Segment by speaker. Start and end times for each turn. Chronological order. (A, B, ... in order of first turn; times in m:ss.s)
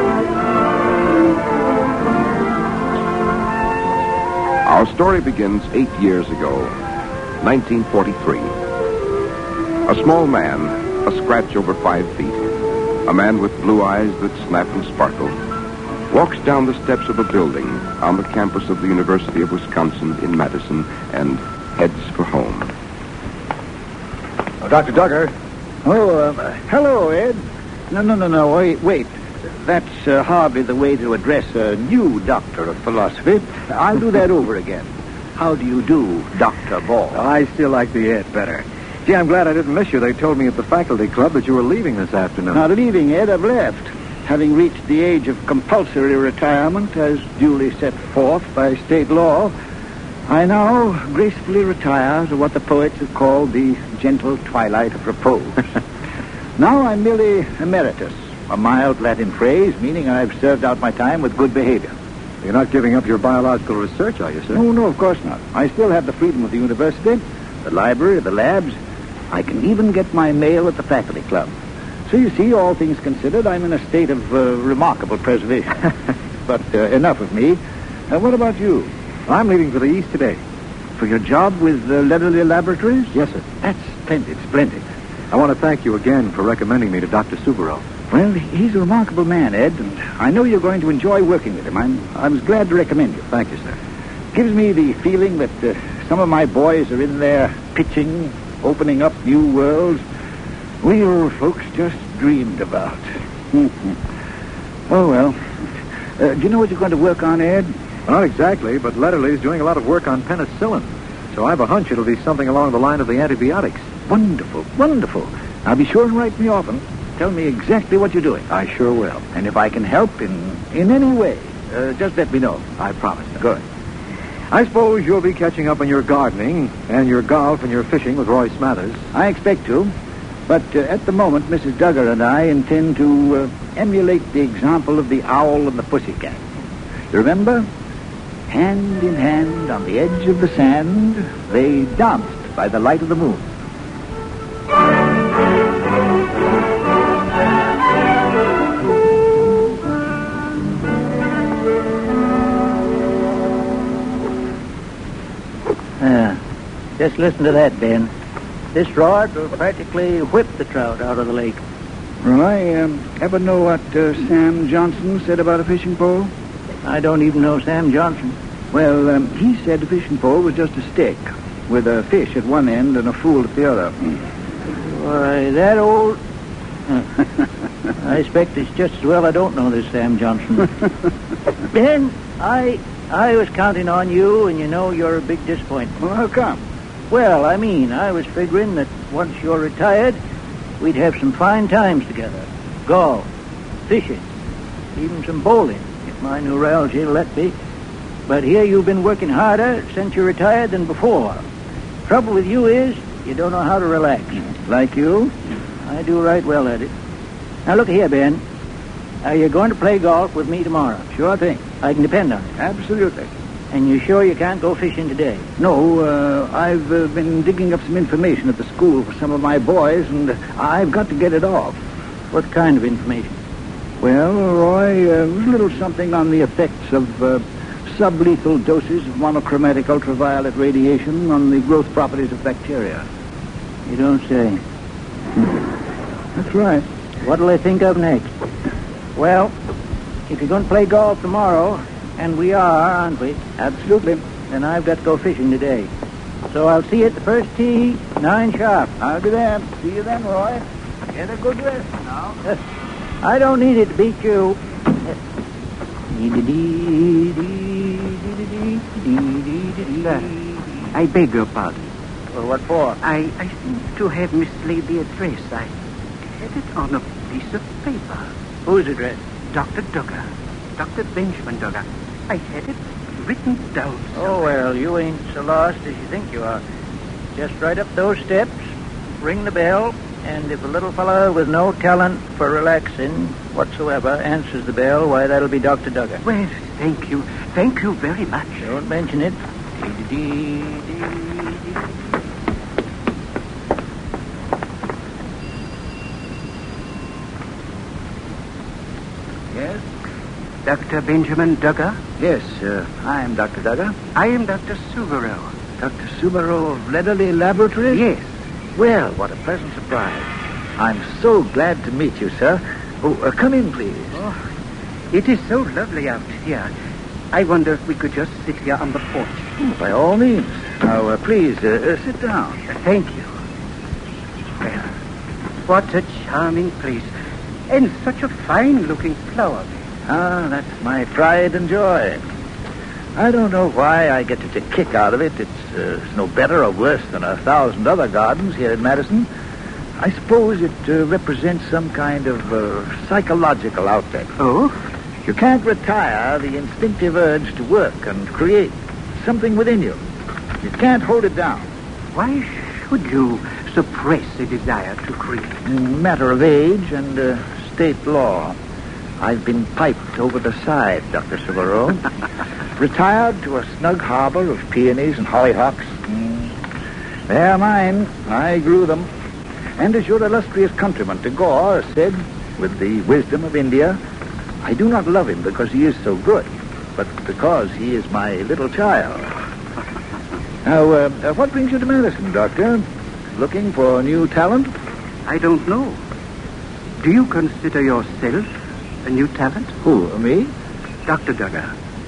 0:04.6-0:06.7 A
0:07.4-0:08.5 A
0:09.9-0:12.4 A
0:13.0-0:15.3 A
0:16.1-0:22.7 A
0:25.8-0:37.2 B
0:37.1-0:42.6 C
0:42.5-0:49.5 B
0:50.3-0:55.8 B
0:56.6-1:01.9 B
1:02.4-1:04.6 C
1:04.5-1:08.8 B
1:09.3-1:11.5 B
1:12.1-1:15.8 B
1:16.4-1:18.9 B
1:19.3-1:20.4 C
1:21.0-1:24.8 B
1:23.1-1:23.4 C
1:25.3-1:27.8 C
1:28.1-1:33.2 B
1:33.3-1:33.8 C
1:34.3-1:40.0 B
1:40.8-1:44.0 B
1:44.9-1:45.5 B
1:46.2-1:47.7 B
1:48.1-1:53.8 C
1:54.1-1:58.4 B
1:58.5-1:59.2 C
1:59.3-2:03.6 B
2:03.0-2:03.2 C
2:04.5-2:09.0 C
2:09.1-2:09.9 B
2:10.5-2:16.4 B
2:17.1-2:17.7 B
2:18.5-2:23.5 B
2:36.0-2:36.4 D
2:37.0-2:38.1 D
2:38.7-2:41.6 D
2:42.2-2:46.3 B
2:46.8-2:48.4 D
2:48.7-2:54.2 B
2:54.9-2:56.2 D
2:58.0-3:00.7 D
3:01.7-3:05.9 D
3:06.0-3:06.6 B
3:07.1-3:10.2 D
3:10.8-3:13.3 D
3:13.9-3:14.2 D
3:14.9-3:17.5 D
3:18.3-3:21.4 D
3:22.0-3:24.4 D
3:24.4-3:25.3 B
3:25.8-3:26.9 D
3:27.6-3:28.4 D
3:29.2-3:31.1 D
3:31.1-3:31.6 B
3:31.8-3:32.5 D
3:32.6-3:33.3 B
3:33.7-3:35.5 D
3:35.6-3:41.8 B
3:42.3-3:43.4 D
3:44.0-3:53.0 B
3:53.9-3:54.6 D
3:56.4-3:56.8 B
3:57.2-3:58.3 D
3:59.2-3:59.5 D
4:00.3-4:03.4 D
4:03.6-4:04.2 B
4:04.5-4:05.9 D
4:06.5-4:08.9 D
4:09.0-4:12.4 B
4:13.2-4:14.6 D
4:16.1-4:20.3 D
4:20.9-4:21.9 E
4:22.3-4:23.0 D
4:23.0-4:25.7 E
4:26.4-4:28.3 E
4:28.6-4:29.2 D
4:29.5-4:30.2 E
4:30.8-4:34.4 E
4:34.1-4:36.6 D
4:37.3-4:38.6 D
4:39.2-4:46.2 D
4:46.2-4:48.6 E
4:48.6-4:51.1 D
4:59.5-4:59.8 B
5:00.6-5:02.0 E
5:02.2-5:04.0 B
5:04.1-5:05.5 E
5:05.8-5:08.0 B
5:07.9-5:08.2 E
5:08.7-5:14.2 B
5:15.1-5:16.7 E
5:17.3-5:19.5 E
5:19.6-5:22.6 B
5:22.7-5:23.3 E
5:25.6-5:27.1 E
5:27.7-5:29.7 E
5:30.1-5:32.2 B
5:33.2-5:39.3 B
5:40.0-5:44.3 B
5:44.4-5:44.7 E
5:45.2-5:50.0 B
5:50.6-5:51.7 B
5:52.1-5:55.6 E
5:55.6-5:58.6 B
5:59.2-6:02.0 B
6:02.8-6:06.5 B
6:07.3-6:09.1 B
6:09.8-6:14.0 B
6:14.6-6:19.3 B
6:20.6-6:24.7 B
6:25.2-6:26.0 E
6:27.0-6:28.5 E
6:29.0-6:29.7 E
6:29.8-6:30.5 B
6:31.0-6:31.7 E